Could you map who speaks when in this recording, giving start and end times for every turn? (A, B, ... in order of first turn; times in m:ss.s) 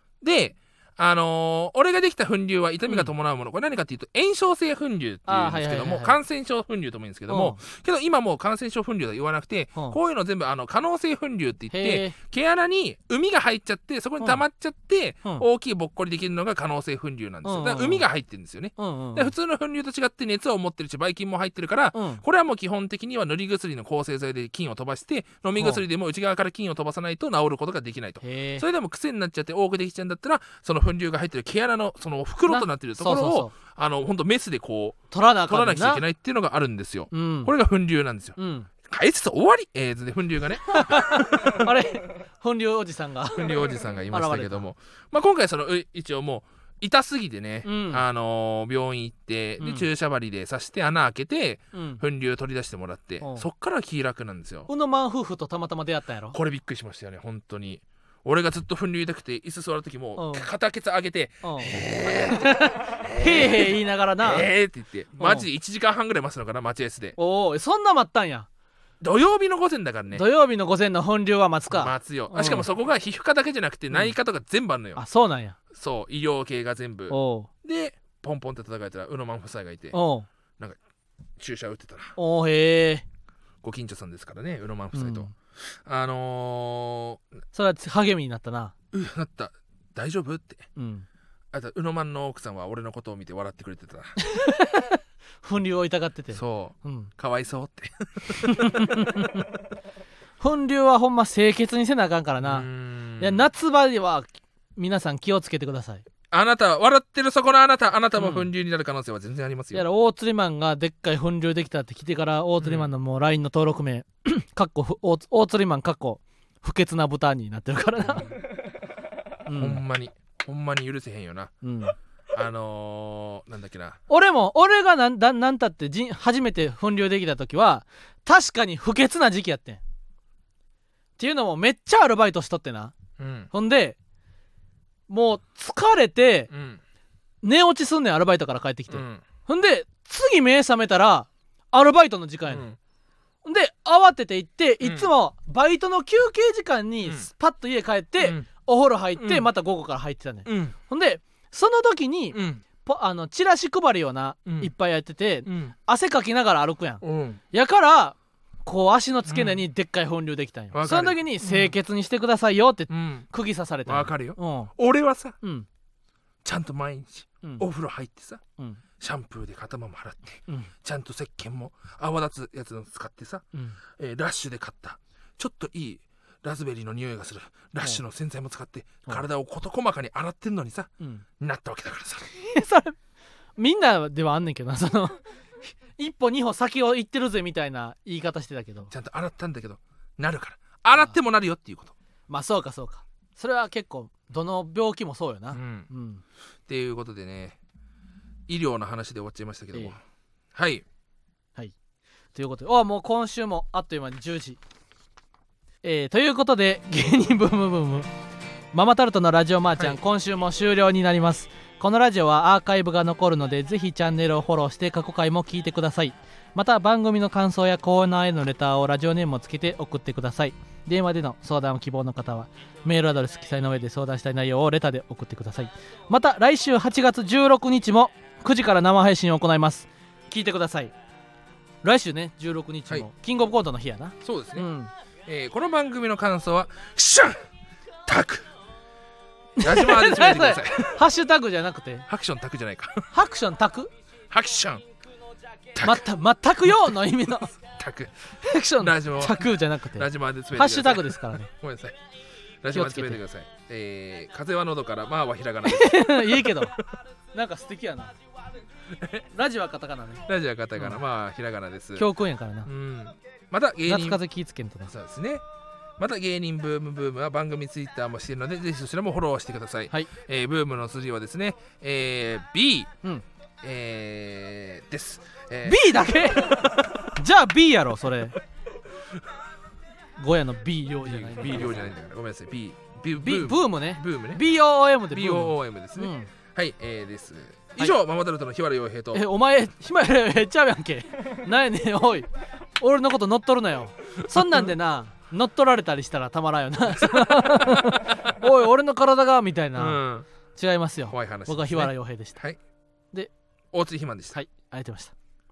0:00.2-0:41.7 A
0:05.3-0:06.2 B
0:07.3-0:07.6 B
0:11.7-0:12.2 B
0:17.4-0:18.0 B
0:18.8-0:19.3 B
0:21.9-0:22.2 B
0:25.6-0:25.8 B
0:28.2-0:28.6 B
0:32.5-0:33.5 B
0:35.1-0:36.0 B
0:37.1-0:37.5 B
0:38.4-0:38.7 B
0:40.7-0:44.6 B
0:43.3-0:54.7 A
0:47.6-0:48.0 B
0:49.6-0:49.9 B
0:51.7-0:52.0 B
0:53.2-0:53.5 B
0:54.7-0:56.4 B
0:56.3-1:07.1 A
1:00.2-1:00.5 B
1:01.4-1:04.5 B
1:05.2-1:05.4 B
1:07.2-1:08.5 B
1:09.0-1:10.2 A
1:10.1-1:12.7 B
1:11.7-1:15.0 A
1:15.0-1:15.6 B
1:15.7-1:20.0 A
1:17.1-1:17.5 B
1:19.9-1:20.3 B
1:21.4-1:22.2 A
1:22.2-1:23.0 B
1:23.6-1:27.2 A
1:24.9-1:25.3 B
1:27.5-1:28.7 B
1:28.9-1:30.6 A
1:30.8-1:31.0 B
1:31.5-1:34.2 A
1:34.2-1:37.1 B
1:36.3-1:39.3 A
1:38.4-1:39.5 B
1:40.4-1:42.7 B
1:42.4-1:43.4 A
1:43.2-1:46.0 B
1:46.3-1:49.8 A
1:48.2-1:48.5 B
1:49.7-1:58.4 B
1:52.6-1:52.9 A
1:59.4-1:59.8 B
1:59.5-2:01.5 A
2:01.6-2:01.9 B
2:02.3-2:04.0 A
2:04.1-2:09.8 B
2:11.2-2:13.0 B
2:13.2-2:13.5 A
2:13.5-2:14.0 B
2:15.1-2:16.5 B
2:16.5-2:16.8 A
2:17.4-2:22.6 B
2:18.9-2:19.2 A
2:22.5-2:22.8 A
2:23.4-2:44.7 B
2:24.8-2:25.1 A
2:28.2-2:28.5 A
2:29.2-2:29.5 A
2:30.4-2:30.7 A
2:32.3-2:32.6 A
2:34.4-2:34.7 A
2:35.4-2:35.7 A
2:37.0-2:37.4 A
2:39.2-2:39.6 A
2:40.7-2:41.7 A
2:42.9-2:43.3 A
2:43.9-2:45.4 A
2:45.4-2:45.7 B
2:46.4-2:48.4 A
2:49.0-2:53.4 A
2:54.0-3:02.2 A
3:02.4-3:03.0 B
3:03.6-3:08.9 B
3:08.9-3:11.9 A
3:12.3-3:16.2 B
3:15.5-3:15.9 A
3:16.7-3:17.6 A
3:18.5-3:20.0 A
3:20.5-3:20.8 A
3:22.3-3:24.6 B
3:25.8-3:28.1 B
3:28.7-3:50.9 B
3:51.8-3:54.9 B
3:54.2-3:54.7 A
3:55.2-3:57.4 A
3:58.0-3:58.5 A
3:59.6-4:02.0 B
3:59.6-4:01.0 A
4:02.1-4:03.1 A
4:03.1-4:03.9 B
4:04.3-4:04.8 A
4:05.7-4:06.0 A
4:05.8-4:07.5 B
4:07.5-4:08.1 A
4:08.4-4:11.5 B
4:08.7-4:12.0 A
4:12.6-4:16.7 A
4:12.7-4:13.2 B
4:15.6-4:16.8 B
4:17.3-4:18.1 B
4:18.9-4:19.2 A
4:19.3-4:20.2 B
4:20.3-4:22.0 A
4:22.0-4:22.7 B
4:22.6-4:24.2 A
4:23.9-4:24.9 B
4:24.9-4:25.4 A
4:26.0-4:32.9 A
4:33.6-4:36.6 A
4:35.6-4:38.4 B
4:40.2-4:41.9 B
4:41.0-4:44.4 A
4:43.2-4:46.3 B
4:45.1-4:49.2 A
4:49.1-4:52.3 B
4:52.8-5:00.0 B
4:54.4-4:54.7 A
4:57.0-4:57.8 A
4:59.8-5:00.3 A
5:00.6-5:02.4 B
5:01.1-5:02.6 A
5:03.7-5:04.4 A
5:04.3-5:05.1 B